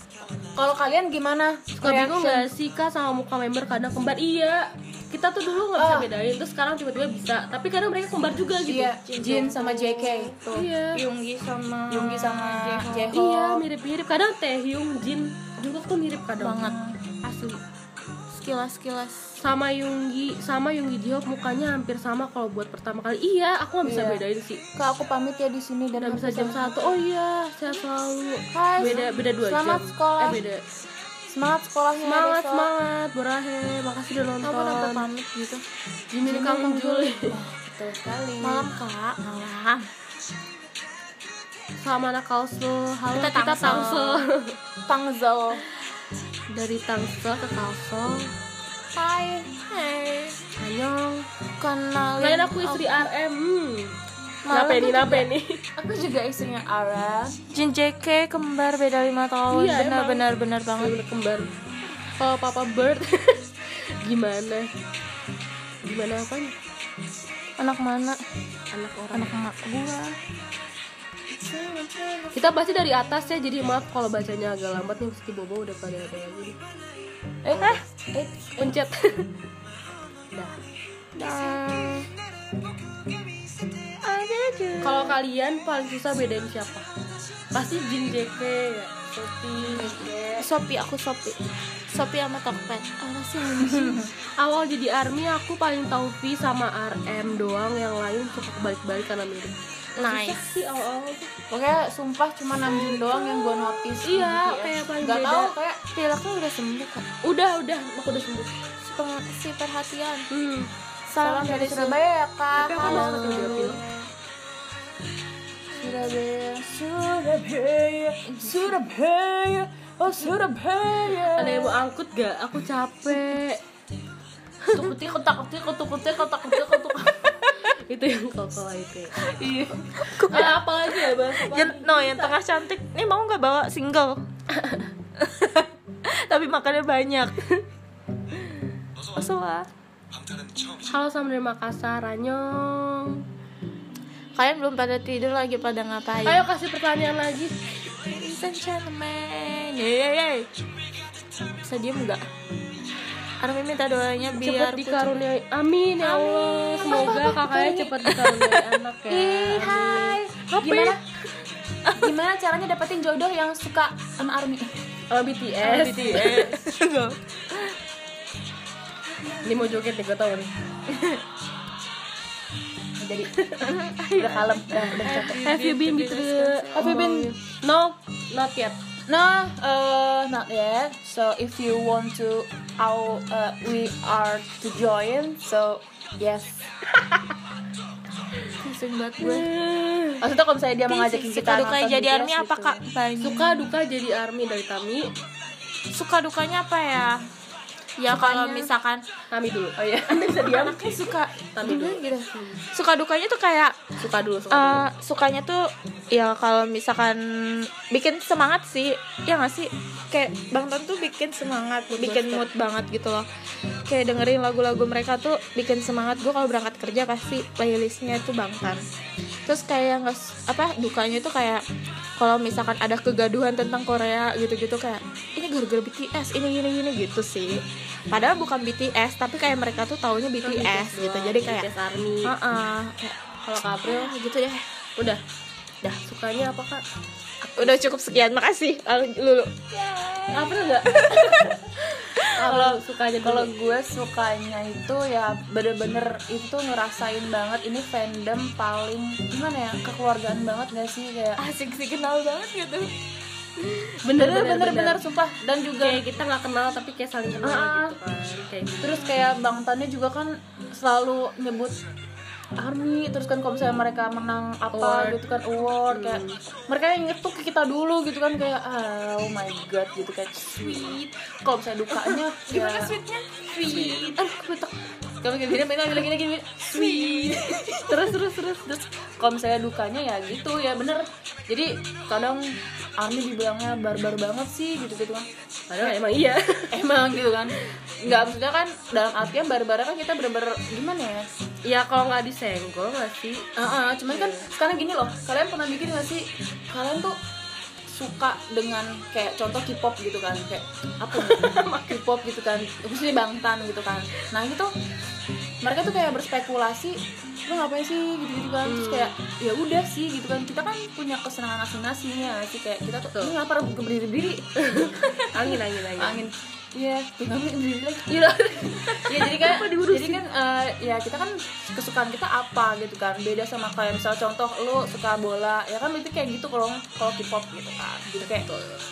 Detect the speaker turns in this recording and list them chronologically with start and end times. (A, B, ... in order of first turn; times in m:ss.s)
0:00.6-0:02.5 A
0:01.8-0:08.9 B
0:05.8-0:06.1 A
0:08.6-0:10.4 A
0:09.1-0:13.2 C
0:10.5-0:11.0 B
0:11.9-0:13.6 A
0:13.1-0:17.6 B
0:16.4-0:16.9 C
0:18.3-0:19.4 C
0:19.4-0:24.6 B
0:23.8-0:24.2 A
0:24.8-0:27.0 A
0:26.0-0:30.6 B
0:28.5-0:30.4 A
0:31.3-0:32.7 A
0:32.0-0:35.1 B
0:34.4-0:35.6 C
0:36.1-0:37.4 B
0:36.3-0:38.7 A
0:38.4-0:39.9 C
0:41.8-0:44.6 B
0:43.1-0:44.2 C
0:44.9-0:45.6 A
0:46.5-0:48.3 B
0:49.0-0:49.5 A
0:49.4-0:50.4 C
0:50.6-0:51.2 B
0:51.6-0:53.1 C
0:52.2-0:53.9 B
0:54.5-0:55.3 C
0:54.5-0:55.6 B
0:55.8-0:57.4 A
0:57.5-1:00.9 C
0:59.5-1:00.2 B
1:00.8-1:01.5 B
1:02.2-1:03.5 B
1:04.0-1:04.7 B
1:05.8-1:06.5 B
1:07.6-1:08.2 C
1:08.7-1:09.4 B
1:09.1-1:10.2 C
1:11.3-1:12.4 A
1:12.3-1:16.6 B
1:17.4-1:18.7 A
1:18.6-1:19.3 B
1:21.2-1:22.1 C
1:24.0-1:25.2 C
1:24.8-1:26.9 B
1:27.5-1:30.0 B
1:29.7-1:30.5 A
1:30.4-1:31.4 C
1:31.9-1:34.1 C
1:33.6-1:34.1 A
1:34.4-1:41.3 B
1:40.0-1:40.4 C
1:41.5-1:45.8 A
1:44.0-1:45.5 B
1:45.9-1:47.0 C
1:47.2-1:48.5 B
1:48.8-1:50.3 C
1:50.3-1:50.7 B
1:51.1-1:52.0 C
1:51.2-1:53.8 A
1:52.6-1:53.8 B
1:52.7-1:54.1 C
1:55.7-2:01.8 A
2:01.4-2:03.6 B
2:04.7-2:07.6 A
2:07.7-2:09.1 B
2:09.3-2:12.3 A
2:09.3-2:14.2 C
2:10.3-2:12.3 B
2:15.2-2:17.4 C
2:19.2-2:19.7 C
2:20.9-2:23.2 B
2:24.4-2:26.5 C
2:26.2-2:27.6 B
2:28.0-2:30.5 C
2:31.6-2:32.2 C
2:33.4-2:35.1 C
2:34.4-2:40.2 B
2:36.1-2:38.6 C
2:36.8-2:37.9 A
2:39.1-2:41.0 A
2:40.6-2:41.0 C
2:41.8-2:42.1 C
2:42.0-2:44.8 A
2:45.1-2:46.6 B
2:45.6-2:47.8 C
2:49.4-2:50.5 B
2:50.9-2:51.2 C
2:53.0-2:53.3 A
2:53.4-2:53.7 B
2:53.6-2:57.2 C
2:54.1-2:55.4 A
2:55.0-2:58.8 B
2:56.8-2:57.3 A
2:59.1-3:06.6 A
3:08.6-3:09.5 C
3:09.2-3:10.2 B
3:10.2-3:12.8 A
3:10.9-3:13.7 C
3:13.2-3:15.1 B
3:15.9-3:17.2 C
3:18.0-3:19.0 C
3:18.1-3:18.7 A
3:19.3-3:20.7 B
3:19.8-3:21.2 A
3:20.3-3:23.9 C
3:21.6-3:22.6 B
3:24.0-3:24.8 B
3:24.5-3:33.3 C
3:32.0-3:32.5 B
3:33.9-3:38.8 C
3:39.5-3:41.6 C
3:42.2-3:51.7 C
3:50.4-3:52.3 B
3:52.2-3:53.2 C
3:53.4-3:54.1 B
3:53.8-3:54.6 C
3:55.8-3:56.8 B
3:57.5-3:57.7 B
3:57.6-4:02.3 C
4:00.3-4:01.4 B
4:00.3-4:01.5 A
4:02.4-4:03.5 B
4:02.4-4:11.4 A
4:11.4-4:12.9 C
4:13.6-4:13.9 C
4:14.0-4:15.0 B
4:14.2-4:16.0 A
4:15.8-4:19.1 B
4:17.4-4:18.0 A
4:18.8-4:21.8 A
4:22.6-4:33.0 A
4:24.7-4:25.2 B
4:25.9-4:26.4 B
4:30.6-4:31.0 B
4:32.5-4:34.2 C
4:33.6-4:34.8 B
4:33.6-4:34.2 A
4:35.2-4:37.8 A
4:36.7-4:38.8 B
4:36.8-4:37.8 C
4:39.2-4:45.3 A
4:45.7-4:46.8 B
4:46.7-4:51.3 A
4:51.6-4:53.5 B
4:53.6-4:57.2 A
4:54.1-4:54.5 B
4:57.9-5:04.7 A
5:01.1-5:02.0 B
5:05.6-5:28.5 A
5:08.6-5:09.1 B
5:14.6-5:16.2 B
5:18.1-5:20.2 B
5:28.2-5:28.8 B